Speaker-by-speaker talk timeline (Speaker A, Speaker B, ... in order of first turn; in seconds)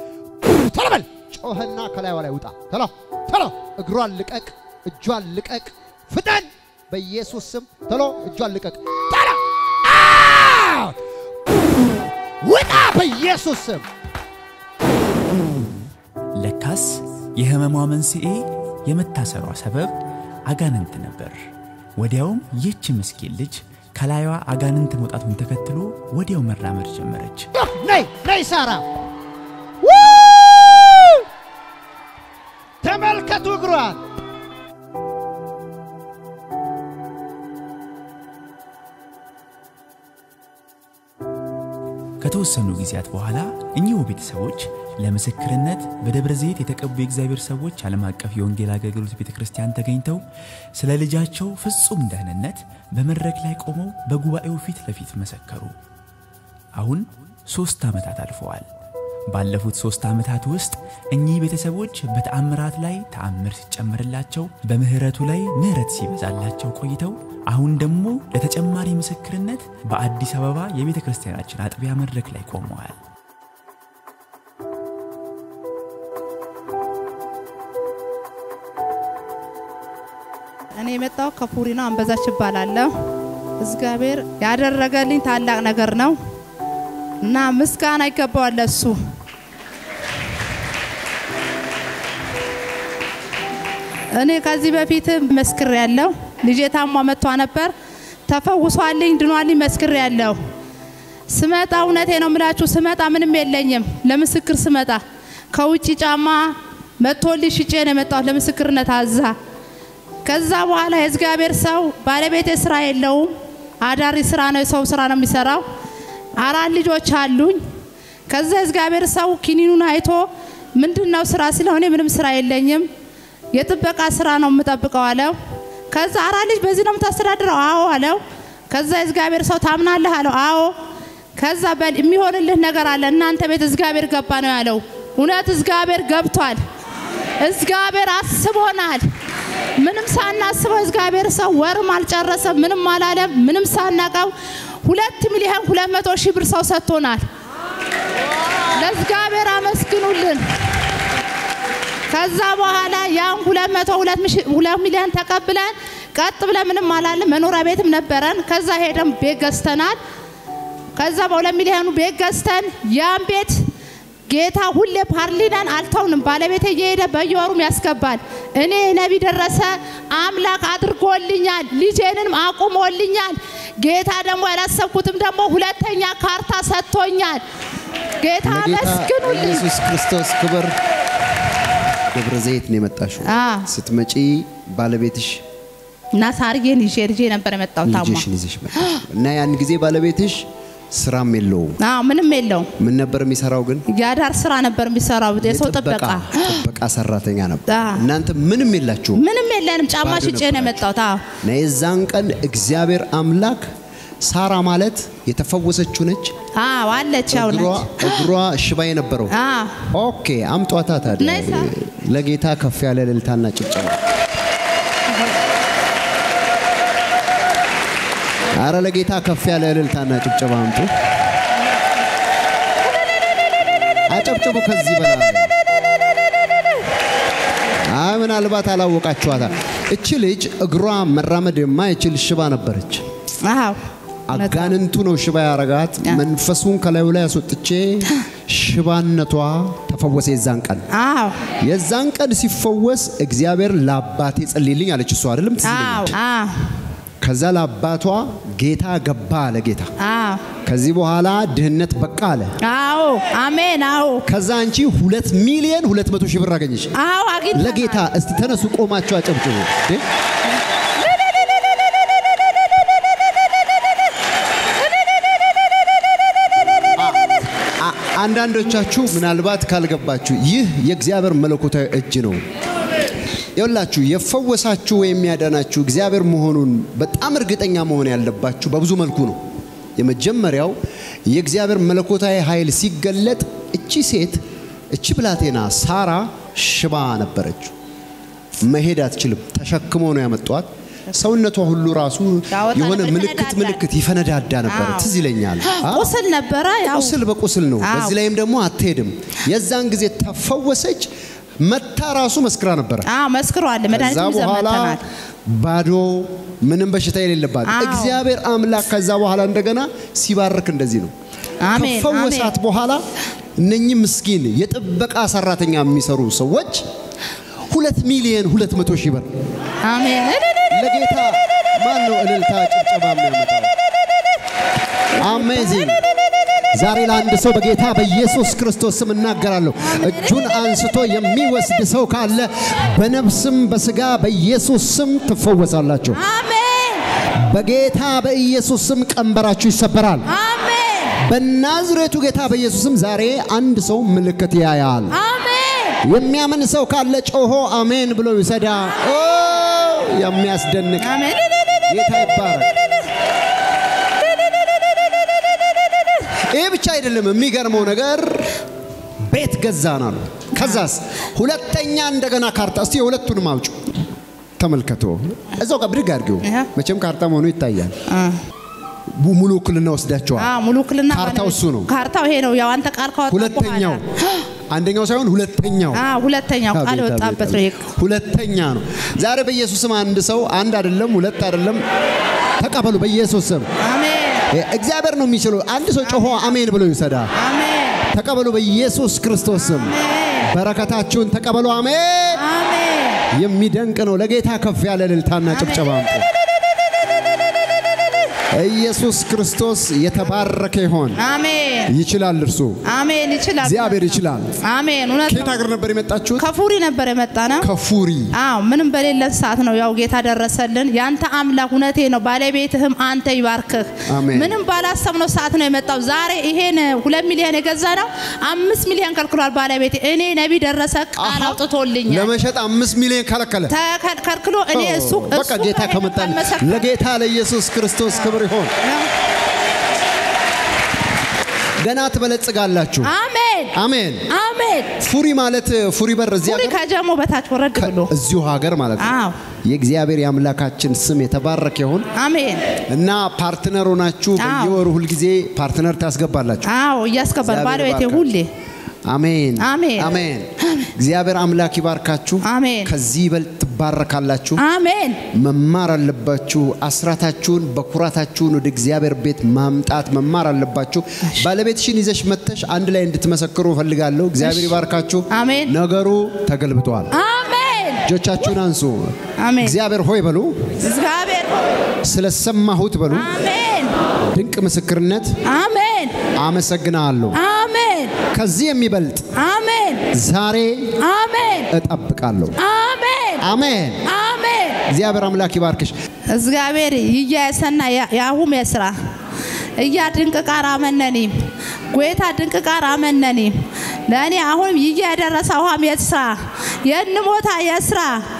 Speaker A: 0.4-10.9, 12.4-13.8, 27.5-28.8, 29.8-31.2, 32.8-34.0, 178.4-180.8, 182.1-185.4, 187.8-191.8, 192.8-193.8, 195.4-199.2, 200.0-200.8, 201.4-203.7, 204.2-206.3, 207.3-209.3, 209.9-214.0, 218.5-220.9, 224.1-225.5, 227.8-233.0, 234.3-240.8, 241.6-246.1, 247.2-249.9, 250.6-252.5, 254.2-256.9, 257.5-260.0, 267.8-272.4, 273.6-279.4, 279.9-280.7, 281.3-284.4, 284.9-287.7, 288.6-296.1, 296.9-301.1, 301.6-303.1, 303.9-311.1, 311.7-313.0, 313.6-316.8, 317.7-319.3, 320.7-323.7, 325.2-326.0, 326.7-336.2, 337.4-340.2, 341.2-345.1, 346.0-351.1, 351.9-352.8, 356.5-358.5, 359.3-364.0, 364.6-367.9, 369.2-370.5, 371.1-371.9, 373.3-374.0, 374.7-376.0, 376.7-381.8, 382.6-383.7, 384.5-387.3, 388.1-392.4, 393.3-396.3, 398.5-401.2, 401.9-402.8, 403.6-404.5, 405.3-406.4, 407.6-408.3, 414.1-414.6, 421.1-423.7, 424.7-428.7, 431.8-433.1, 433.7-434.2, 435.0-436.8, 437.7-439.1, 439.6-442.1, 442.9-446.7, 447.4-448.3, 449.1-454.6, 455.3-467.1, 468.0-470.6, 472.0-473.3, 474.3-475.3, 476.4-477.4, 478.3-479.3, 480.1-480.9, 481.7-482.6, 483.4-484.0, 484.9-485.9
Speaker B: 16.4-19.9, 20.4-21.4, 22.0-27.5, 42.2-50.2, 50.8-55.7, 56.8-58.7, 59.3-73.0
Speaker C: 80.8-82.9, 83.6-86.2, 87.2-89.0, 94.1-97.7, 98.3-100.4, 101.3-109.3, 110.2-115.6, 116.4-117.6, 118.3-122.9, 123.5-125.3, 125.9-130.7, 131.3-136.6, 137.4-139.1, 139.8-147.2, 148.7-150.4, 152.1-160.0, 160.9-163.6, 164.3-177.4, 178.2-179.7, 183.2-183.7, 186.1-188.2, 191.8-192.7, 193.9-196.6, 197.7-198.0, 199.2-201.2, 206.6-208.3, 209.3-209.8, 211.2-211.7, 233.4-233.8, 234.3-234.7, 240.9-241.4, 245.6-246.7, 250.0-250.4, 252.6-254.2, 256.9-258.0, 292.5-293.8, 294.7-295.1, 295.6-297.2, 297.8-298.1, 303.1-305.0, 307.6-308.2, 311.6-312.5, 319.8-320.4, 325.2-325.8, 329.8-330.4, 336.1-337.0, 340.3-341.2, 345.1-346.0, 351.0-351.4, 360.6-360.8, 368.1-368.4, 370.4-374.4, 375.9-377.9, 383.8-384.4, 386.0-386.4, 387.4-388.0, 389.6-390.5, 392.4-393.2, 395.5-395.9, 401.2-401.9, 402.9-405.5, 406.4-407.7, 408.3-422.3, 423.7-426.9, 428.1-429.1, 433.0-433.7, 434.3-435.0, 436.4-438.1, 439.0-439.4, 442.1-442.6, 444.4-444.8, 446.6-448.5, 449.6-450.1, 452.4-452.9, 454.6-455.2, 464.4-464.7, 465.3-465.7, 467.1-468.1, 469.4-469.7, 470.8-471.7, 473.1-473.9, 475.4-476.1, 477.3-478.1, 479.3-480.0, 481.0-481.7, 482.6-483.4, 484.1-484.8, 486.3-488.9, 489.8-491.3, 491.9-493.5, 494.1-498.2